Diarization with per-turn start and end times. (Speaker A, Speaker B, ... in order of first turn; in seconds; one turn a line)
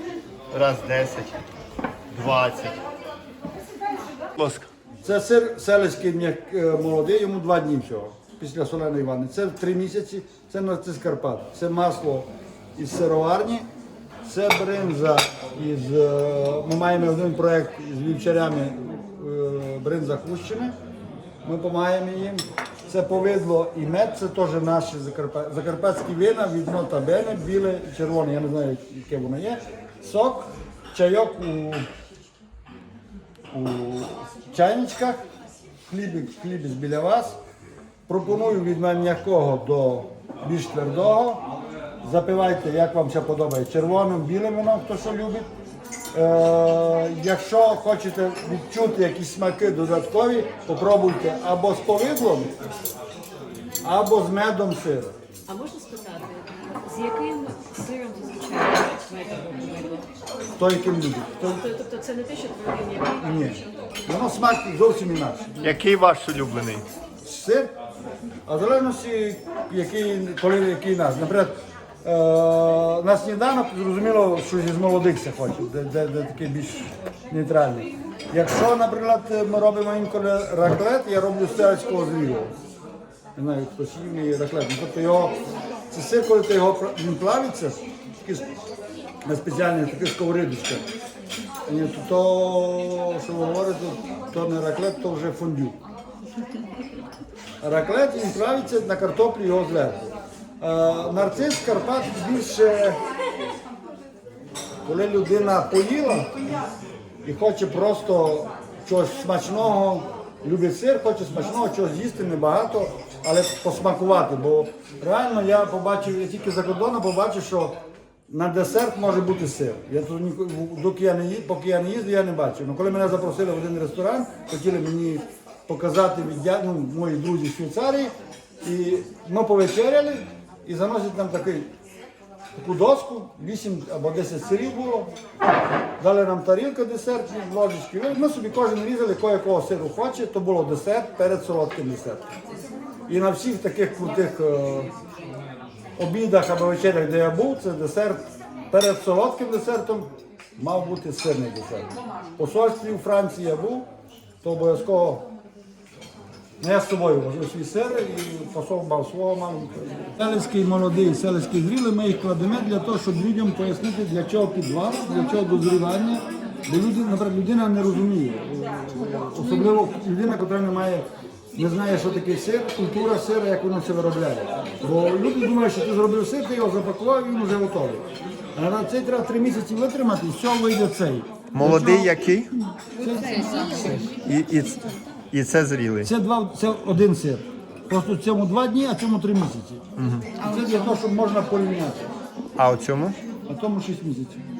Speaker A: 0.5-1.4
Speaker A: 2.1-2.8
Speaker A: 4.3-4.7
Speaker B: 5.0-13.7
Speaker B: 14.2-20.7
Speaker B: 21.4-31.9
Speaker B: 33.5-35.2
Speaker B: 35.9-37.4
Speaker B: 38.1-41.4
Speaker B: 42.0-45.5
Speaker B: 46.1-52.5
Speaker B: 53.8-55.1
Speaker C: 55.5-60.1
Speaker B: 60.6-61.6
Speaker C: 61.5-63.6
Speaker B: 63.2-65.8
Speaker A: 65.6-66.9
Speaker B: 67.2-67.7
Speaker B: 68.5-82.5
Speaker B: 83.3-85.4
Speaker B: 85.9-88.5
Speaker B: 89.2-90.8
Speaker B: 91.7-95.8
Speaker B: 97.6-103.0
Speaker B: 104.8-106.4
Speaker B: 107.2-117.8
Speaker B: 118.3-131.7
Speaker B: 132.5-135.1
Speaker B: 136.0-142.3
Speaker B: 143.1-144.9
Speaker B: 146.0-153.9
Speaker B: 154.4-155.3
Speaker B: 156.6-182.1
Speaker A: 181.5-182.5
Speaker C: 182.9-184.3
Speaker B: 183.0-184.1
Speaker A: 184.2-186.1
Speaker B: 186.0-189.8
Speaker A: 190.0-190.3
Speaker C: 190.3-191.0
Speaker B: 190.4-192.1
Speaker A: 192.6-193.2
Speaker B: 193.5-194.4